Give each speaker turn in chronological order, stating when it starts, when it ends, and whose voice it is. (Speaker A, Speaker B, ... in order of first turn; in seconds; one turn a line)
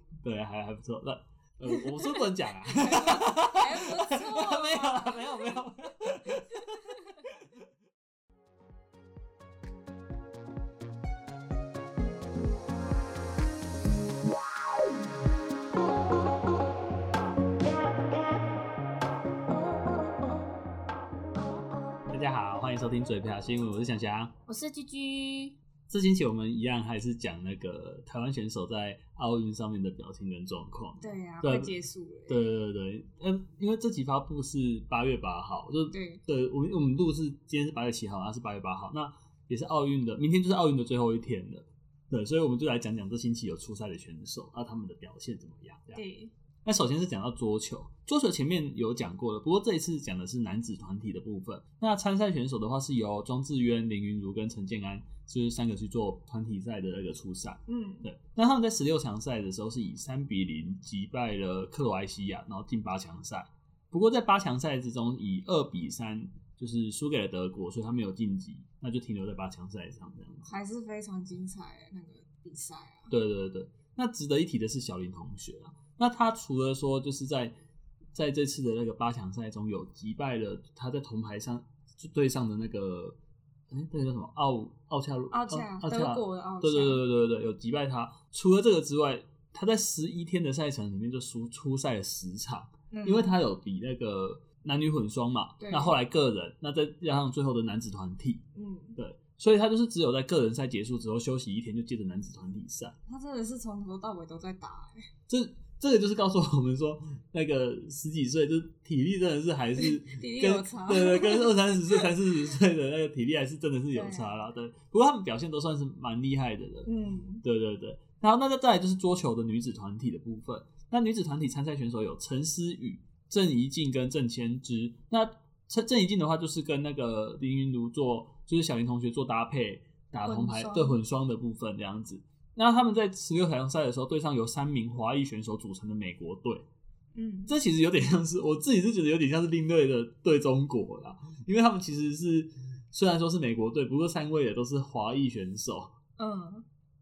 Speaker A: 0.2-7.0
Speaker B: 1.8-5.6
Speaker A: 22.1-24.4
Speaker B: 24.5-25.6
Speaker A: 25.9-31.7
Speaker B: 31.0-32.4
Speaker A: 32.3-46.0
Speaker B: 35.9-36.2
Speaker B: 46.0-46.3
Speaker A: 46.6-70.5
Speaker B: 57.7-58.1
Speaker B: 70.5-73.1
Speaker A: 73.1-77.5
Speaker A: 78.1-83.2
Speaker A: 83.7-98.4
Speaker B: 85.3-87.0
Speaker B: 92.9-93.4
Speaker B: 95.6-96.0
Speaker B: 98.5-99.0
Speaker A: 99.0-103.0
Speaker B: 103.1-105.1
Speaker A: 105.3-116.9
Speaker B: 109.8-112.1
Speaker B: 113.9-114.3
Speaker B: 116.9-117.4
Speaker A: 117.4-136.7
Speaker B: 130.2-131.0
Speaker B: 137.1-137.6
Speaker A: 137.5-145.9
Speaker B: 146.2-146.7